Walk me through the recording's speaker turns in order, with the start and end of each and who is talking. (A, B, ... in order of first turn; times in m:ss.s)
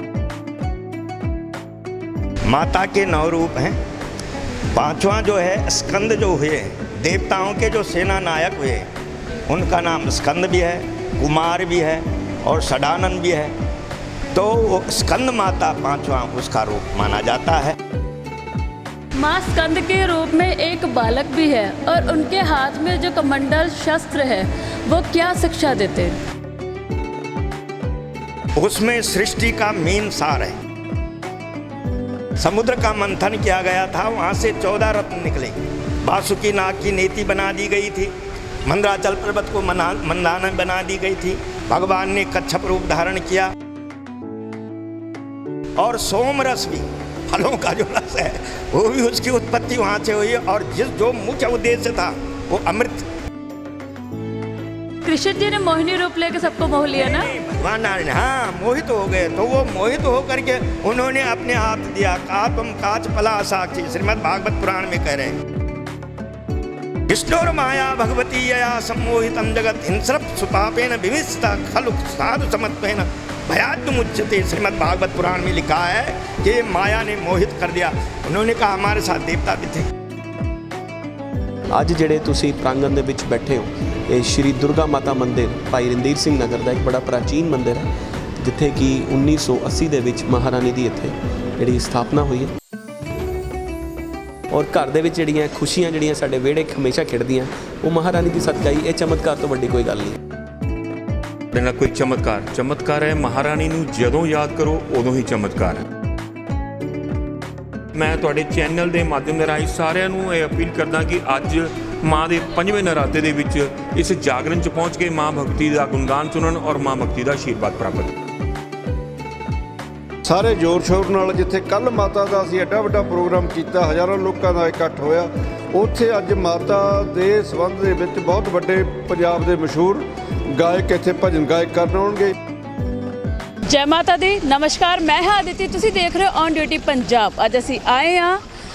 0:02.4-0:03.8 A
0:04.7-0:08.9 A
0:09.5-0:13.5 A
0:14.3-0:17.8 A
0:19.2-0:26.2 B
0:28.6-0:30.6 A
0:32.4-0:38.1 A
0:38.7-0:43.6 A
0:45.8-0:53.1 A
0:55.0-0:57.3 B
0:57.0-1:05.4 A
1:07.1-1:19.9 A
1:21.7-1:27.9 C
1:28.4-1:32.5 C
1:34.5-1:40.2 C
1:41.5-1:45.9 D
1:47.9-1:58.1 D
2:00.2-2:12.4 E
2:13.7-2:18.4 B